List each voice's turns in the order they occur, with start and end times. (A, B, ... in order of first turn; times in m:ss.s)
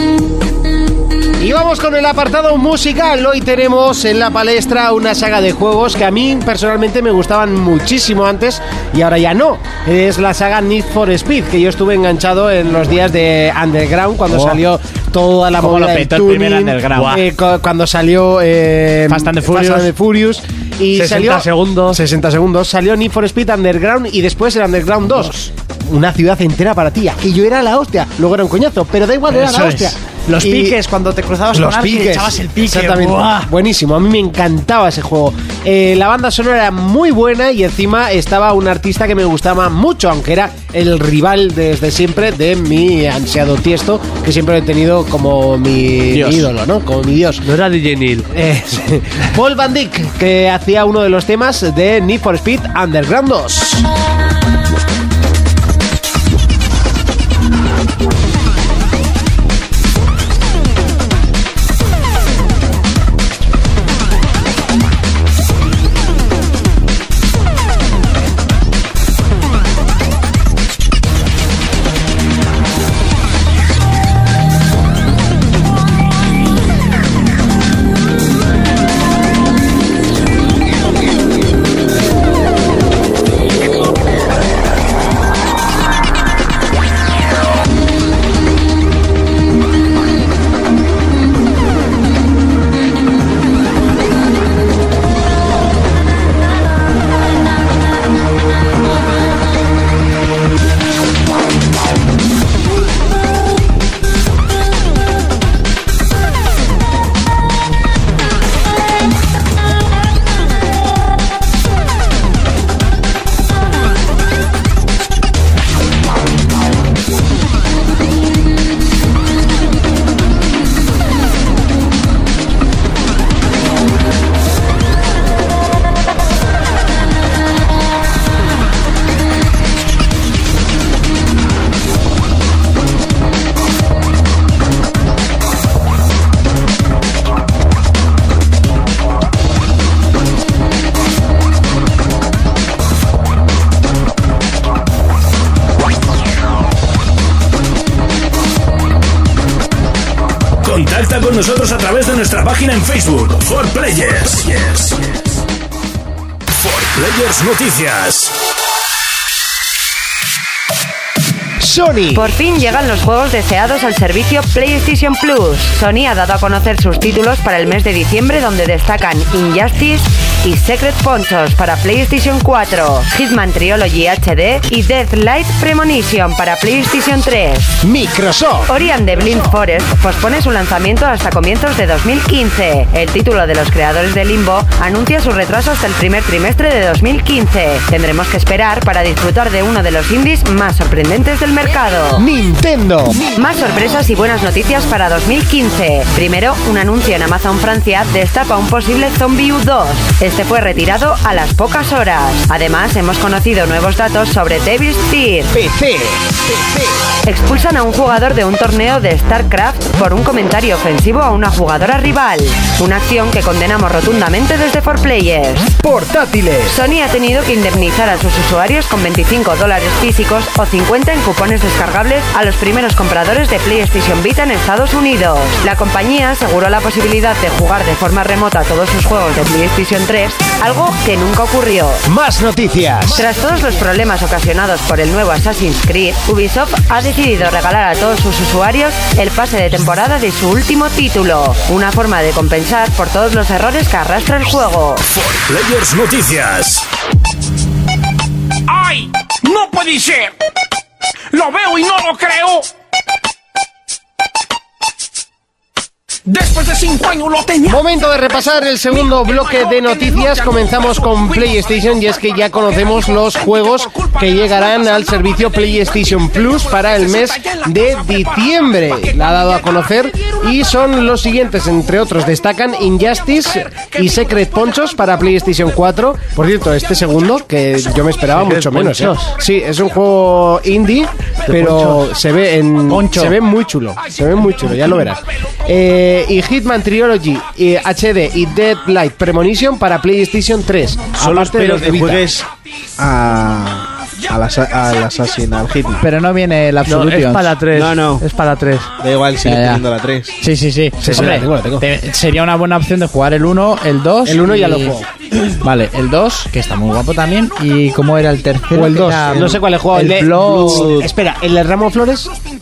0:01.4-0:30.8 A
0:14.3-0:14.6 B
0:15.6-0:17.2 B
0:16.9-0:17.2 C
0:19.1-0:19.9 B
0:20.9-0:22.0 C
0:25.2-0:25.5 B
0:29.3-0:33.5 B
0:31.5-0:47.4 A
0:46.1-0:46.5 B
0:47.4-0:48.3 C
0:48.3-0:53.9 A
2:30.6-2:35.2 D
2:36.6-2:38.4 D
2:41.6-2:42.3 A
2:42.1-2:57.8 E
2:57.8-2:58.7 A
2:58.7-3:12.3 E
3:12.2-3:13.2 A
3:13.3-3:25.6 E
3:25.5-3:26.2 A
3:27.2-3:35.7 E
3:35.8-3:36.8 A
3:36.7-3:52.0 E
3:52.1-3:53.2 A
3:53.1-4:05.0 E
4:05.1-4:06.9 D
4:08.7-4:10.4 F
4:11.3-4:12.7 F
4:16.3-4:17.8 F
4:17.7-4:52.3 A
4:20.1-4:20.4 F
4:38.3-4:39.4 C
4:41.5-4:42.0 C
4:42.9-4:43.4 B
4:51.2-4:52.5 G
4:53.0-4:56.1 G
4:56.0-4:57.6 B
4:56.9-4:58.9 C
4:57.7-4:58.2 G
4:59.0-5:00.4 G
4:59.4-4:59.8 B
5:00.4-5:05.0 B
5:01.0-5:01.9 A
5:01.1-5:01.4 C
5:04.2-5:05.1 A
5:05.6-5:10.9 B
5:08.7-5:12.3 A
5:10.3-5:11.1 G